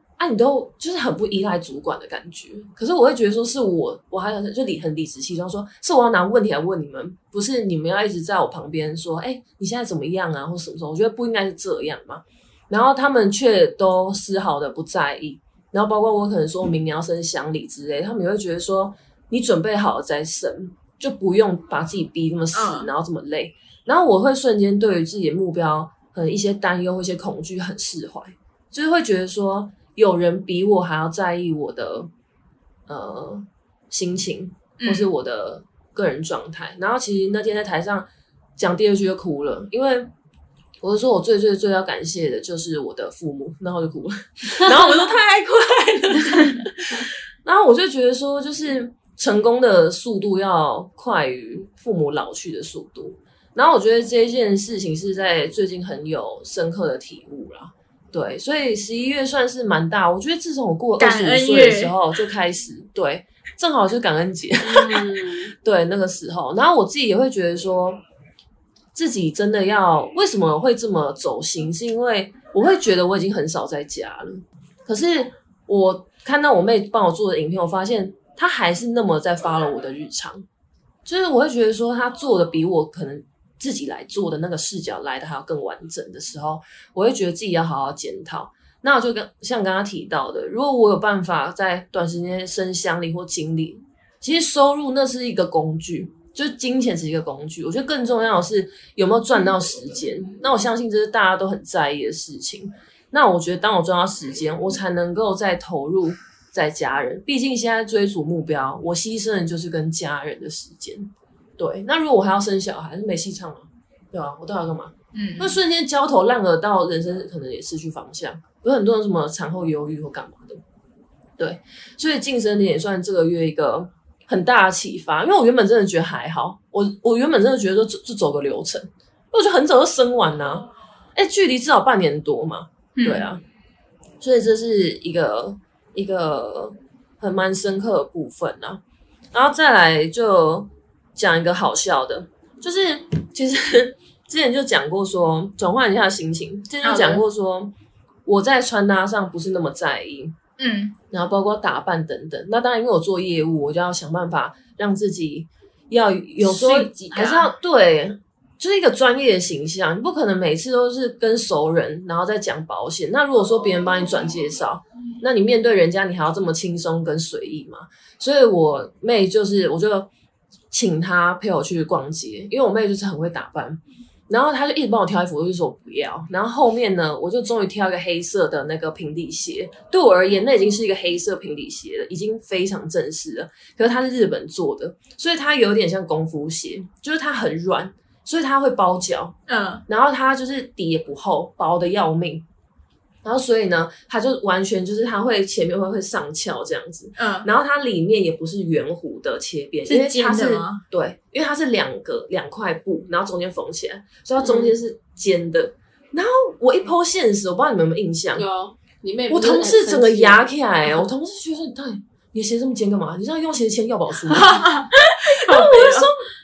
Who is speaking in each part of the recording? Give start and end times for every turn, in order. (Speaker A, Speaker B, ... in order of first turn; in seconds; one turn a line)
Speaker A: 0.2-32.1
Speaker B: 22.5-22.9
Speaker A: 32.9-40.1
Speaker B: 34.8-35.1
Speaker A: 40.8-68.0
Speaker B: 61.0-61.9
Speaker C: 64.6-65.5
Speaker A: 68.9-80.4
Speaker A: 81.0-120.6
Speaker B: 115.1-115.6
Speaker A: 121.4-133.4
Speaker B: 132.9-133.3
Speaker A: 134.2-138.8
Speaker A: 139.3-147.7
Speaker B: 146.8-147.2
Speaker A: 148.2-150.4
Speaker B: 150.6-150.9
Speaker A: 151.1-170.1
Speaker B: 156.4-157.5
Speaker A: 170.7-189.3
Speaker B: 189.5-189.8
Speaker A: 189.9-192.4
Speaker A: 193.2-208.4
Speaker B: 197.2-197.5
Speaker B: 199.9-200.8
Speaker C: 204.4-204.7
Speaker C: 208.3-210.5
Speaker A: 209.3-214.7
Speaker B: 214.3-216.1
Speaker A: 215.4-216.2